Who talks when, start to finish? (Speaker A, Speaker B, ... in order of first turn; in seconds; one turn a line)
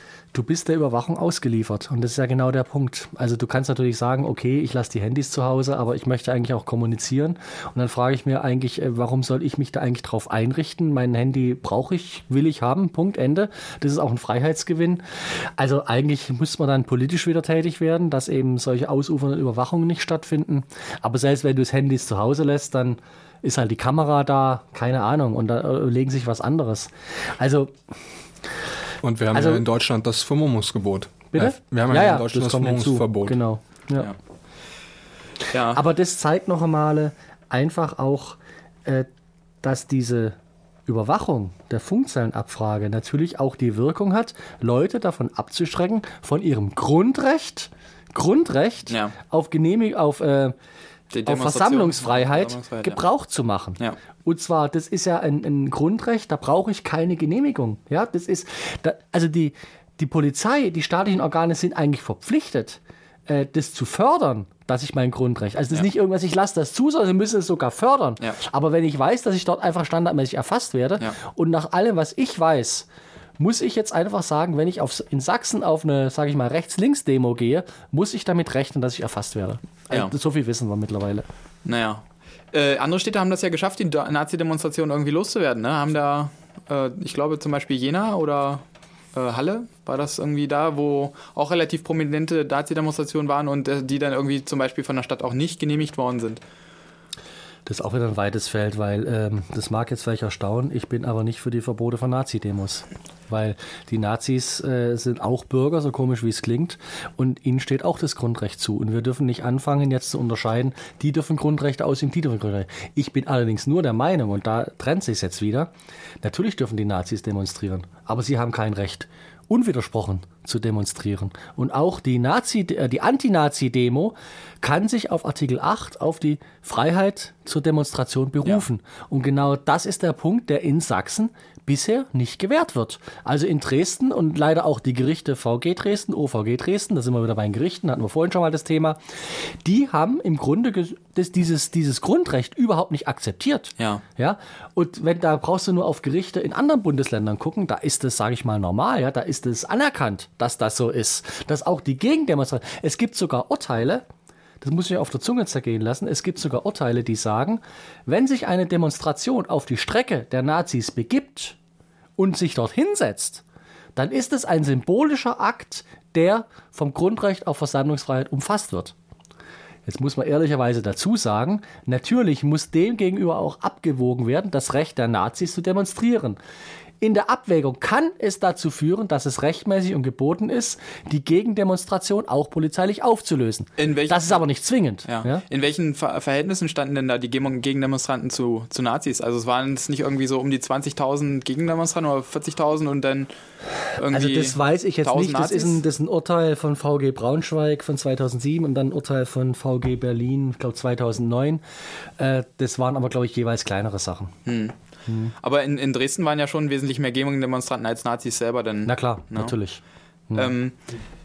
Speaker A: 0.3-27.8
Speaker B: 29.0-33.4
Speaker A: 29.3-29.6
Speaker A: 31.3-34.1
Speaker C: 35.5-35.8
Speaker A: 35.7-39.1
Speaker A: 39.6-50.6
Speaker C: 48.9-49.1
Speaker C: 51.1-53.0
Speaker A: 51.3-81.3
Speaker C: 81.7-88.6
Speaker C: 89.2-96.4
Speaker A: 97.7-154.1
Speaker A: 154.6-161.6
Speaker A: 162.2-163.4
Speaker A: 164.0-168.9
Speaker A: 169.9-176.4
Speaker A: 177.0-185.4
Speaker C: 183.8-184.4
Speaker C: 185.1-193.3
Speaker C: 193.9-195.8
Speaker A: 194.1-201.6
Speaker A: 202.2-204.3
Speaker C: 204.5-204.8
Speaker A: 205.1-205.3
Speaker C: 205.4-209.6
Speaker A: 208.9-210.5
Speaker C: 210.3-210.8